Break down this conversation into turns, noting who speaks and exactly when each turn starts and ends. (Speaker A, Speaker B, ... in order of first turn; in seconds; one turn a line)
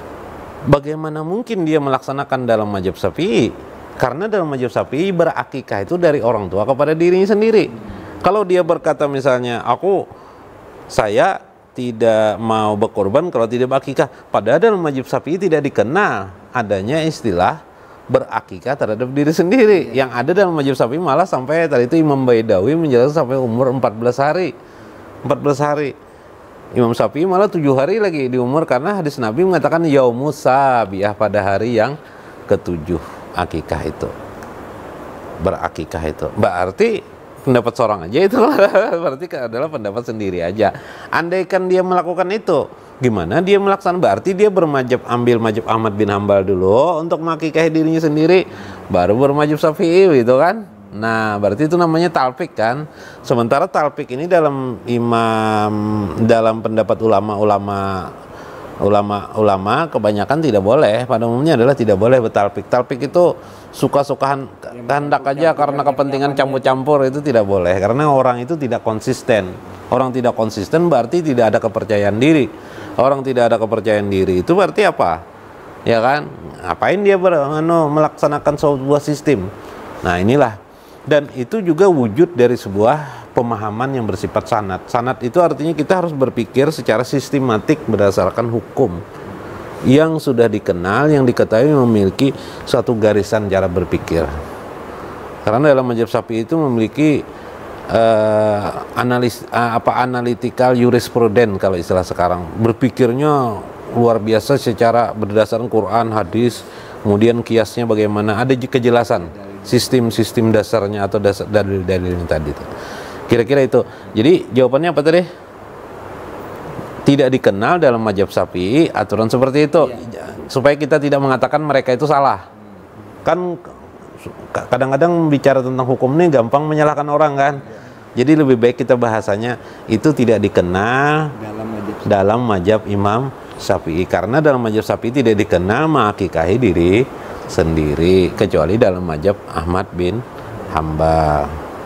Speaker A: 0.7-10.0
Speaker A: 10.9-24.5
Speaker A: 25.2-25.9
Speaker A: 26.7-34.1
Speaker A: 35.4-58.1
Speaker A: 58.8-75.2
Speaker B: 64.8-66.7
Speaker A: 75.8-79.5
Speaker A: 80.0-89.0
Speaker A: 89.9-94.3
Speaker A: 95.4-97.2
Speaker A: 97.9-112.7
Speaker B: 109.4-109.8
Speaker A: 113.3-115.3
Speaker A: 117.0-122.4
Speaker A: 123.2-123.7
Speaker A: 124.2-131.3
Speaker B: 131.4-132.1
Speaker A: 132.0-141.6